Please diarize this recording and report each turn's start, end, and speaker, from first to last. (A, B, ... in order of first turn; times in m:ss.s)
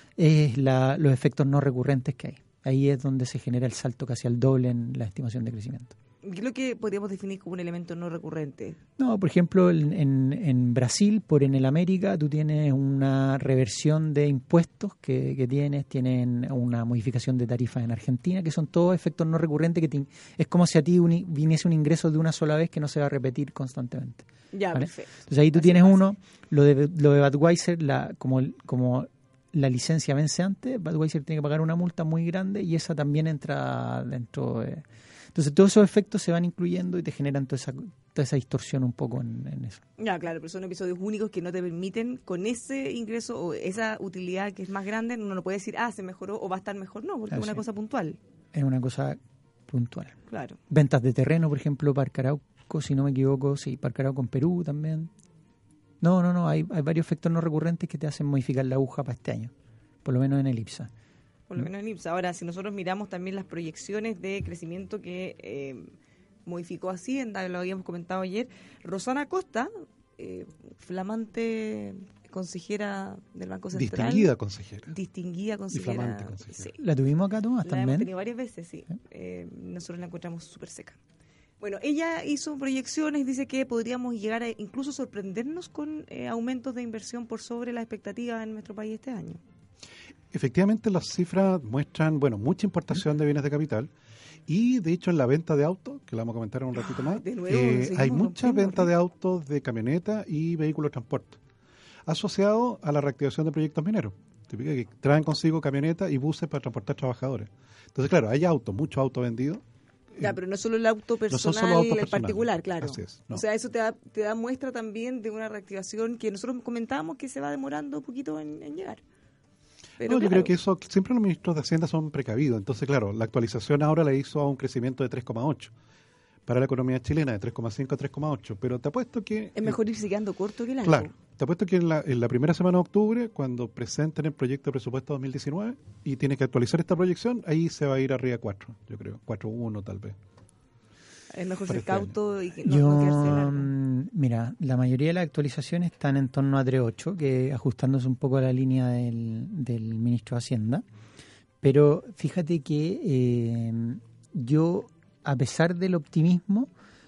0:00.2-0:05.9 A
0:06.2-0:08.8 B
0:09.0-0:39.8 A
0:24.5-0:26.0 B
0:40.0-0:48.2 B
0:47.3-0:47.6 A
0:48.5-0:50.2 A
0:50.3-0:50.6 B
0:50.7-0:55.1 A
0:56.0-0:59.5 A
1:00.0-1:00.9 A
1:01.5-1:05.9 B
1:06.4-1:14.3 B
1:13.7-1:14.9 C
1:14.9-1:16.8 B
1:15.7-1:16.7 C
1:16.8-1:18.1 A
1:17.6-1:21.0 B
1:21.6-1:29.4 B
1:30.3-1:33.9 C
1:34.5-1:41.4 C
1:36.8-1:38.9 B
1:42.0-1:49.6 C
1:50.2-1:59.0 B
1:51.3-1:53.4 C
2:00.0-2:00.5 B
2:00.0-2:05.7 C
2:06.4-2:09.8 C
2:09.6-2:11.1 B
2:10.8-2:20.2 C
2:21.3-2:23.7 B
2:21.7-2:22.1 C
2:22.6-2:30.8 A
2:31.6-2:36.7 A